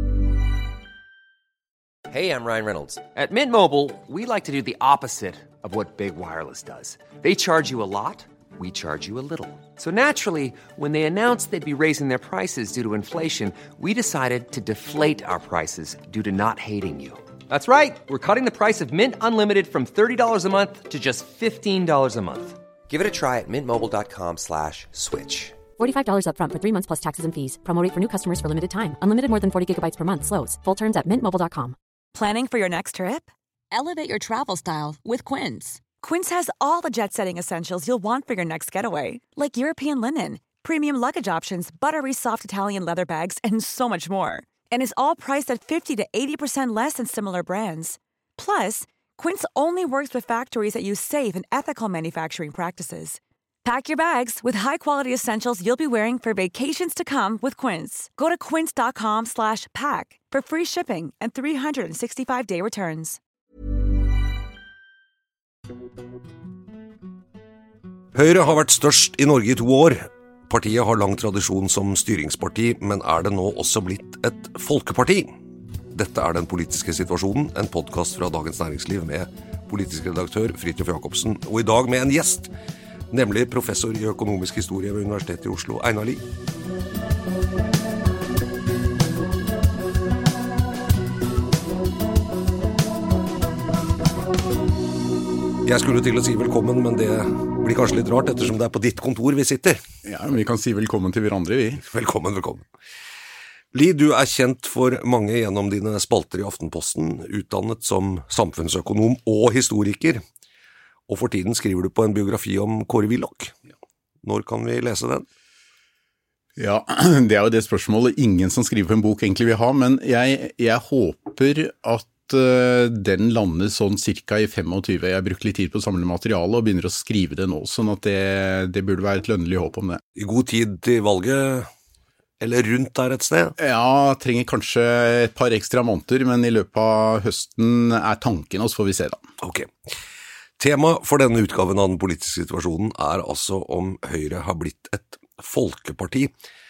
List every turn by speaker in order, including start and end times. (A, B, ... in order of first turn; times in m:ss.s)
0:02.1-0:25.6 A
0:25.8-0:31.8 B
0:32.1-1:03.2 C
1:08.1-1:15.3 D
1:15.9-1:22.5 D
1:23.1-1:26.2 D
1:35.6-1:39.8 D
1:40.0-1:41.8 E
1:41.8-1:42.6 D
1:43.7-1:50.2 D
1:51.1-1:53.6 D
1:54.2-1:55.2 D
1:56.6-2:10.0 E
2:10.2-2:11.7 D
2:12.4-2:13.5 D
2:13.6-2:19.3 E
2:19.4-2:19.9 D
2:20.6-2:26.3 D